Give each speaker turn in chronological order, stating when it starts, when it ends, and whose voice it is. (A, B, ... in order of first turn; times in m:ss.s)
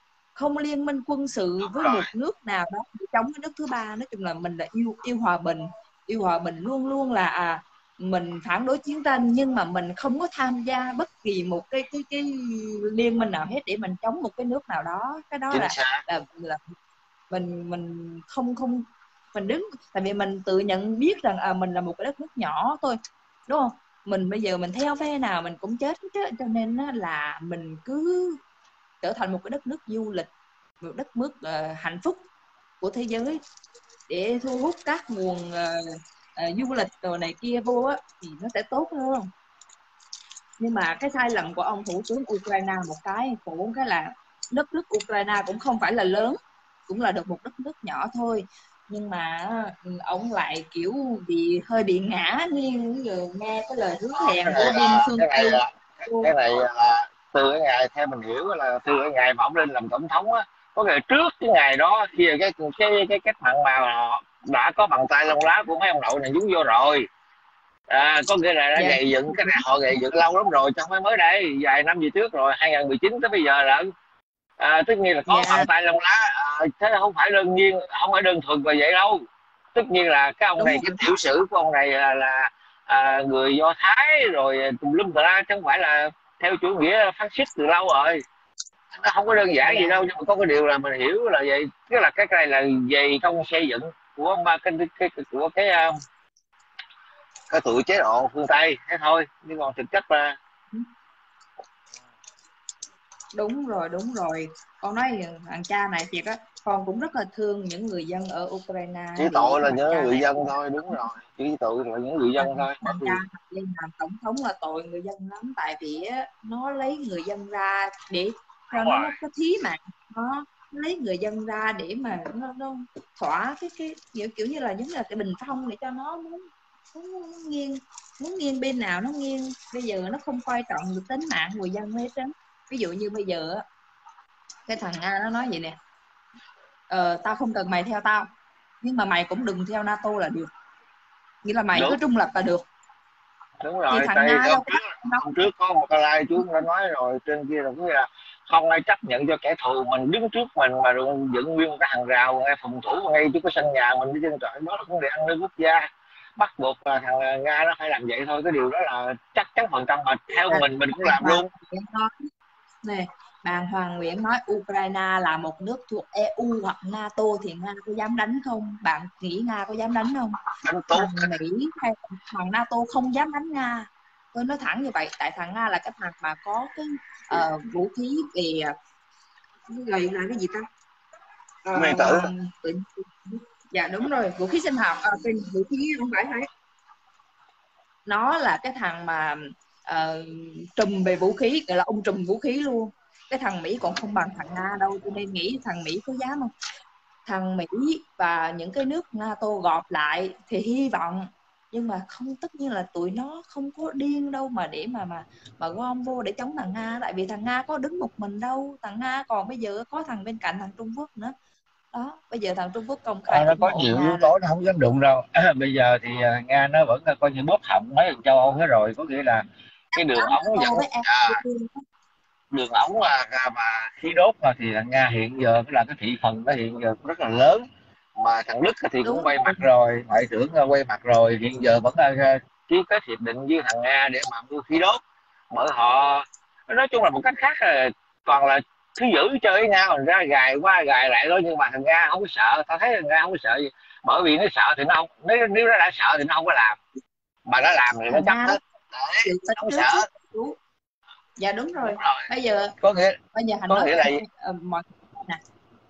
0:00.3-0:16.7 A
0:01.6-0:02.1 B
0:15.5-0:16.0 B
0:17.3-0:28.4 A
0:29.0-0:30.3 A
0:30.8-0:32.2 A
0:32.8-0:33.4 A
0:34.1-0:39.3 A
0:40.6-0:56.3 A
0:54.1-1:07.1 B
1:07.9-1:13.9 B
1:08.8-1:09.6 A
1:14.6-1:28.2 B
1:15.3-1:15.7 A
1:20.6-1:20.9 A
1:28.9-1:36.0 B
1:29.6-1:30.0 A
1:37.5-1:40.4 B
1:43.3-1:51.0 A
1:49.2-1:53.2 B
1:52.4-2:13.6 A
1:58.7-1:59.2 B
2:14.7-2:15.8 A
2:16.9-2:18.3 A
2:18.8-2:20.5 A
2:21.4-2:22.6 A
2:21.7-2:22.0 B
2:23.6-2:35.8 B
2:23.9-2:25.4 A
2:36.4-2:41.5 B
2:40.5-2:42.3 A
2:42.8-2:50.4 A
2:50.6-2:51.4 B
2:50.9-2:58.7 A
2:59.7-3:00.7 A
3:01.6-3:06.5 A
3:01.7-3:02.3 B
3:08.0-3:16.5 A
3:17.2-3:31.3 A
3:31.9-3:34.3 A
3:33.3-3:39.4 B
3:39.9-3:41.8 A
3:40.0-3:41.4 B
3:42.5-3:47.6 B
3:48.2-3:55.0 B
3:49.0-3:49.6 A
3:55.5-4:06.8 B
4:07.4-4:10.0 B
4:08.1-4:08.6 A
4:09.2-4:10.6 A
4:11.4-4:12.8 A
4:11.8-4:12.3 B
4:12.8-4:13.2 B
4:13.3-4:15.4 A
4:13.7-4:14.2 B